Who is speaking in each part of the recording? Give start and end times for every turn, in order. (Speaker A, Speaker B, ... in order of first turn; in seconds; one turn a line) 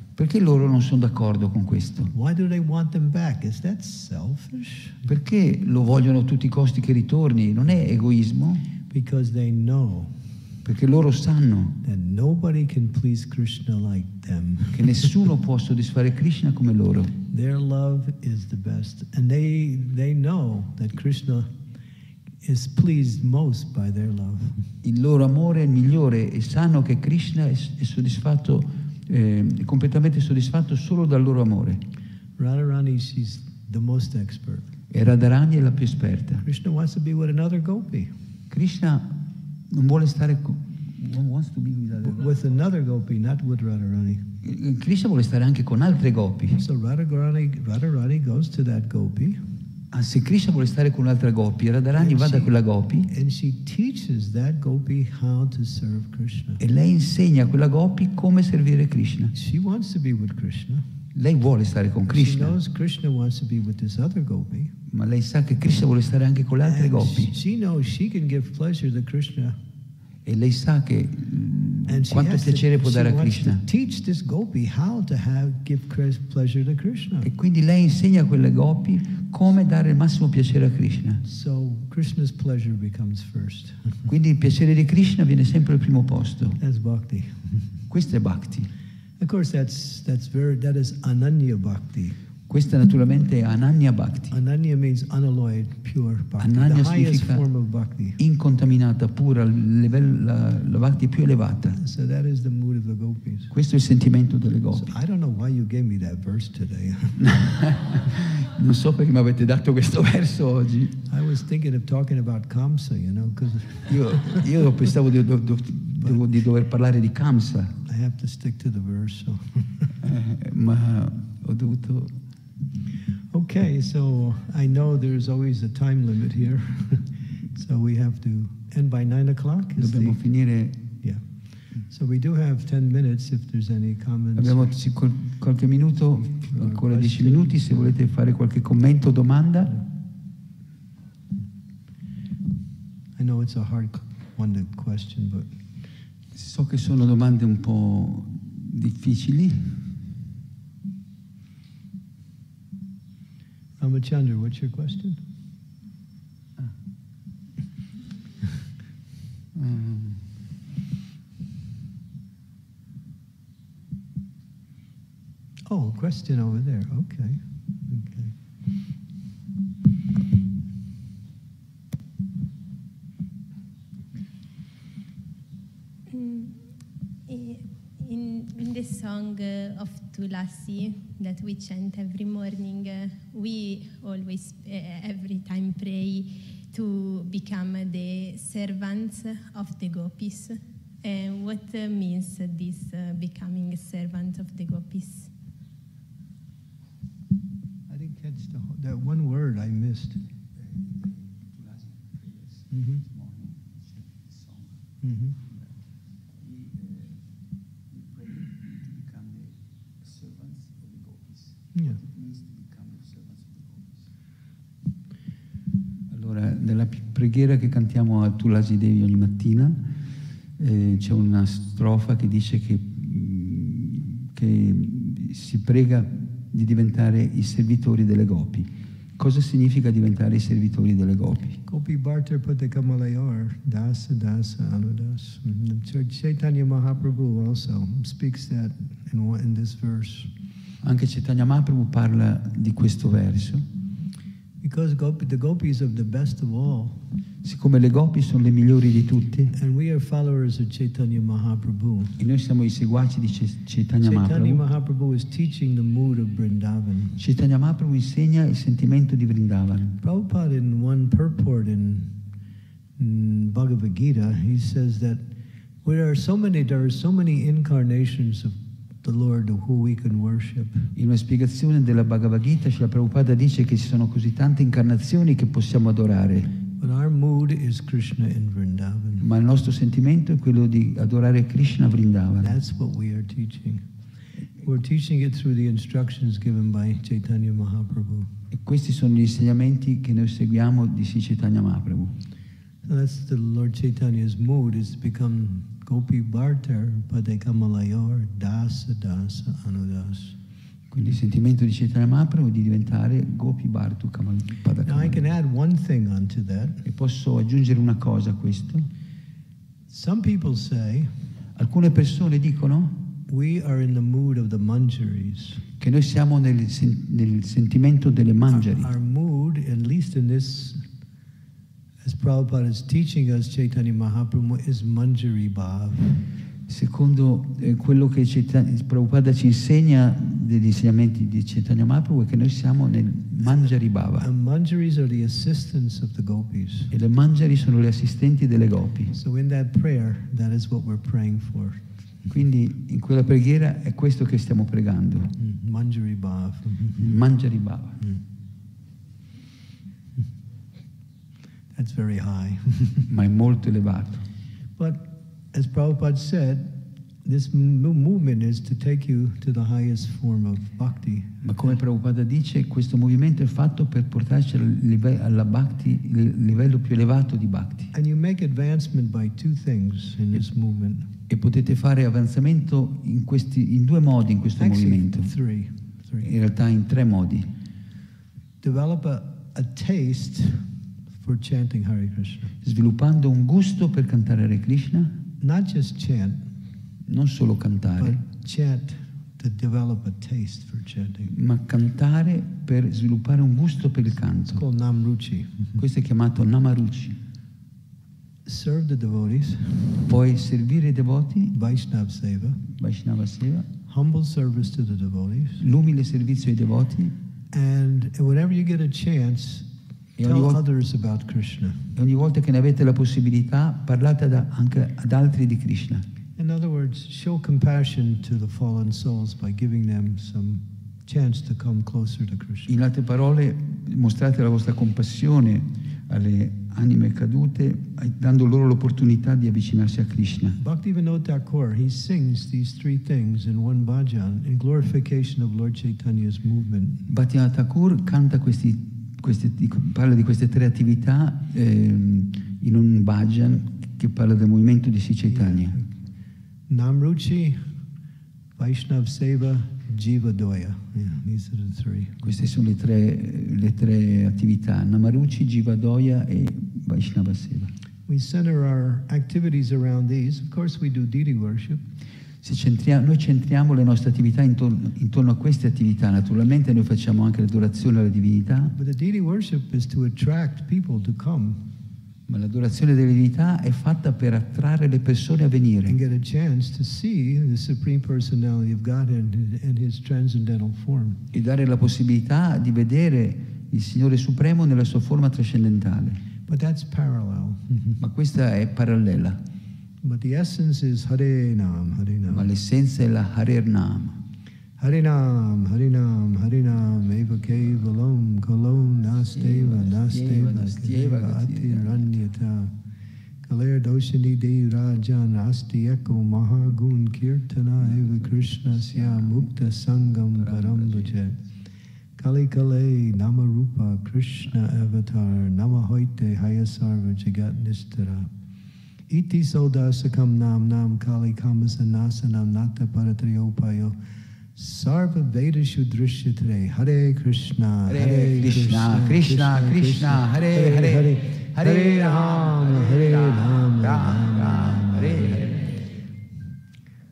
Speaker A: 0.2-2.1
Speaker B: 2.1-5.0
Speaker A: 5.1-8.7
Speaker B: 8.9-10.3
Speaker A: 10.7-11.8
Speaker B: 11.8-15.2
Speaker A: 14.7-17.1
Speaker B: 17.3-21.5
Speaker B: 22.4-24.7
Speaker A: 24.8-31.8
Speaker B: 32.4-34.7
Speaker A: 34.9-36.4
Speaker B: 36.4-38.1
Speaker A: 38.5-39.2
Speaker A: 39.7-42.3
Speaker B: 42.0-44.2
Speaker A: 44.4-46.6
Speaker B: 46.6-49.4
Speaker A: 49.9-53.1
Speaker B: 52.0-52.6
Speaker B: 53.1-56.6
Speaker A: 56.6-59.3
Speaker B: 59.3-60.9
Speaker A: 61.1-62.6
Speaker B: 62.1-64.7
Speaker A: 64.9-67.3
Speaker B: 66.6-69.6
Speaker A: 70.2-73.6
Speaker B: 71.9-77.3
Speaker A: 77.2-81.2
Speaker B: 81.2-84.0
Speaker A: 84.1-86.6
Speaker B: 86.6-87.7
Speaker A: 87.9-88.7
Speaker B: 89.2-92.2
Speaker A: 92.5-94.4
Speaker B: 94.3-98.2
Speaker A: 96.4-97.5
Speaker A: 98.2-101.8
Speaker B: 101.8-103.5
Speaker A: 103.5-104.9
Speaker B: 104.7-107.3
Speaker A: 107.2-111.0
Speaker B: 111.1-114.5
Speaker A: 113.9-117.8
Speaker B: 117.8-119.9
Speaker A: 120.0-122.2
Speaker B: 123.3-130.2
Speaker A: 129.8-130.8
Speaker B: 131.8-134.8
Speaker A: 134.4-139.8
Speaker B: 136.5-137.9
Speaker B: 143.2-145.5
Speaker A: 146.3-149.9
Speaker B: 153.8-155.2
Speaker A: 159.6-160.2
Speaker B: 165.7-168.3
Speaker C: 176.1-176.6
Speaker C: 177.3-195.3
Speaker B: 197.9-200.2
Speaker A: 200.6-204.7
Speaker B: 202.7-203.1
Speaker B: 205.0-205.3
Speaker A: 206.4-207.1
Speaker A: 207.9-213.8
Speaker B: 211.7-212.0
Speaker A: 216.1-219.8
Speaker A: 220.6-231.6
Speaker B: 231.7-240.3
Speaker A: 240.8-243.6
Speaker B: 244.6-247.0
Speaker A: 247.4-249.6
Speaker B: 249.5-252.2
Speaker A: 252.2-254.6
Speaker B: 254.1-257.2
Speaker A: 257.2-260.0
Speaker B: 260.0-262.2
Speaker B: 263.0-265.2
Speaker B: 265.8-270.9
Speaker A: 270.9-276.6
Speaker B: 276.8-279.3
Speaker A: 279.2-282.6
Speaker B: 282.4-283.9
Speaker B: 284.6-288.3
Speaker A: 288.5-292.1
Speaker B: 292.8-300.4
Speaker A: 300.9-305.2
Speaker B: 304.8-306.8
Speaker A: 306.9-308.9
Speaker B: 309.9-311.1
Speaker A: 311.6-313.0
Speaker B: 313.3-315.6
Speaker A: 315.8-318.9
Speaker B: 318.5-320.8
Speaker B: 322.0-326.3
Speaker A: 326.7-334.3
Speaker B: 333.4-336.9
Speaker A: 336.9-339.1
Speaker B: 339.1-341.8
Speaker A: 342.3-345.4
Speaker B: 345.4-347.1
Speaker A: 347.0-348.0
Speaker B: 351.8-353.1
Speaker A: 353.1-354.2
Speaker B: 354.8-361.8
Speaker A: 361.4-367.9
Speaker B: 367.9-371.1
Speaker A: 371.3-375.3
Speaker B: 374.6-376.3
Speaker A: 376.2-377.5
Speaker B: 378.6-382.5
Speaker A: 382.6-385.1
Speaker B: 385.4-386.5
Speaker A: 387.1-388.2
Speaker B: 388.0-391.3
Speaker A: 391.3-394.6
Speaker B: 394.5-395.8
Speaker A: 395.8-397.2
Speaker B: 398.5-400.1
Speaker A: 400.1-401.5
Speaker B: 401.5-402.6
Speaker A: 402.7-403.7
Speaker B: 403.9-405.6
Speaker A: 405.6-407.1
Speaker B: 407.5-409.7
Speaker A: 410.2-410.6
Speaker B: 410.2-411.9
Speaker A: 412.0-416.0
Speaker B: 416.4-422.7
Speaker A: 422.7-430.6
Speaker B: 430.6-437.1
Speaker A: 437.1-445.8
Speaker B: 445.3-445.9
Speaker B: 446.7-447.7
Speaker B: 448.6-452.2
Speaker A: 452.2-457.7
Speaker B: 458.1-461.8
Speaker A: 462.4-468.8
Speaker B: 468.8-471.6
Speaker A: 472.3-476.0
Speaker B: 475.9-481.2
Speaker A: 481.3-486.2
Speaker B: 486.5-488.0
Speaker A: 488.0-489.4
Speaker B: 490.0-492.5
Speaker A: 492.3-494.2
Speaker B: 494.8-502.7
Speaker A: 499.4-502.1
Speaker B: 503.4-511.4
Speaker A: 507.8-509.5
Speaker A: 510.3-511.3
Speaker B: 512.2-518.3
Speaker B: 519.1-524.0
Speaker B: 524.5-535.5
Speaker A: 527.9-535.7